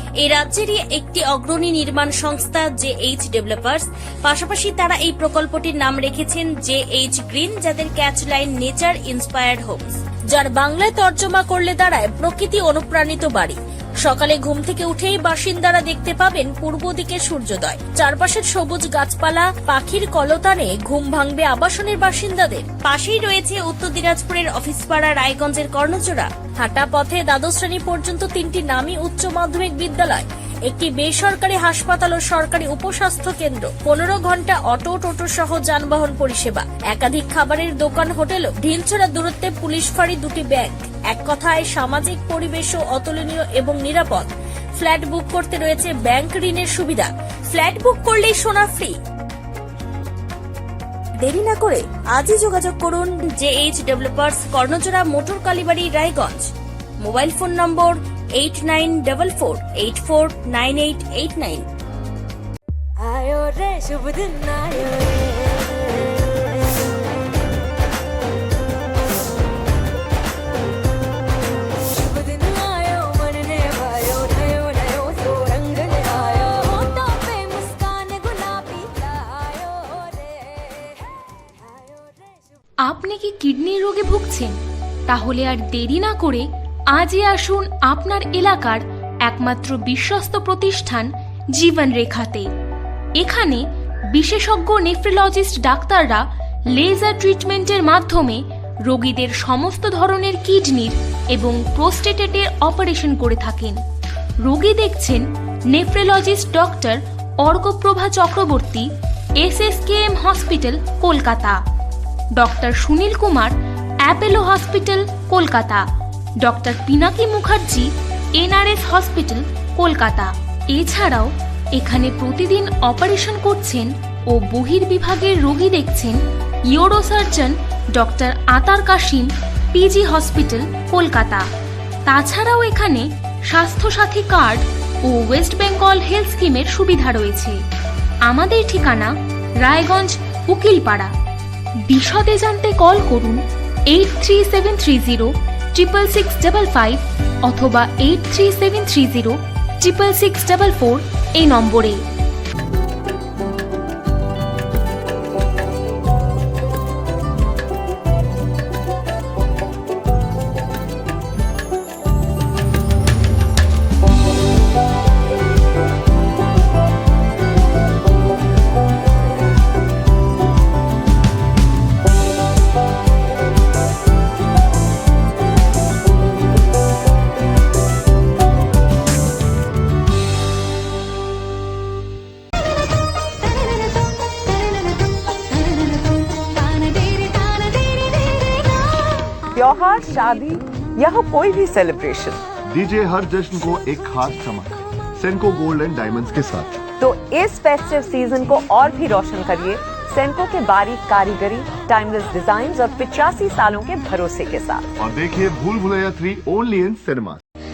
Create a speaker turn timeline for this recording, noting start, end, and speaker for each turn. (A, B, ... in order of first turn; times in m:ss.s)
0:00.2-0:49.0 A
0:51.2-0:56.5 A
0:57.0-1:01.7 A
1:03.0-1:06.0 B
1:12.0-1:21.0 B
1:21.6-1:22.4 B
1:22.8-1:24.6 C
1:25.1-1:32.5 C
1:33.2-1:33.6 C
1:34.2-1:36.2 C
1:36.8-1:43.8 C
1:44.4-1:48.9 C
1:49.4-1:51.6 C
1:52.4-1:53.6 C
1:54.1-1:55.8 C
1:56.4-2:06.2 C
2:06.7-2:11.4 C
2:12.1-2:17.6 C
2:18.3-2:21.1 C
2:21.9-2:23.4 C
2:23.9-2:32.0 C
3:06.8-3:08.3 B
3:09.5-3:12.4 D
3:12.7-3:16.8 E
3:17.0-3:24.9 D
3:25.0-3:27.4 E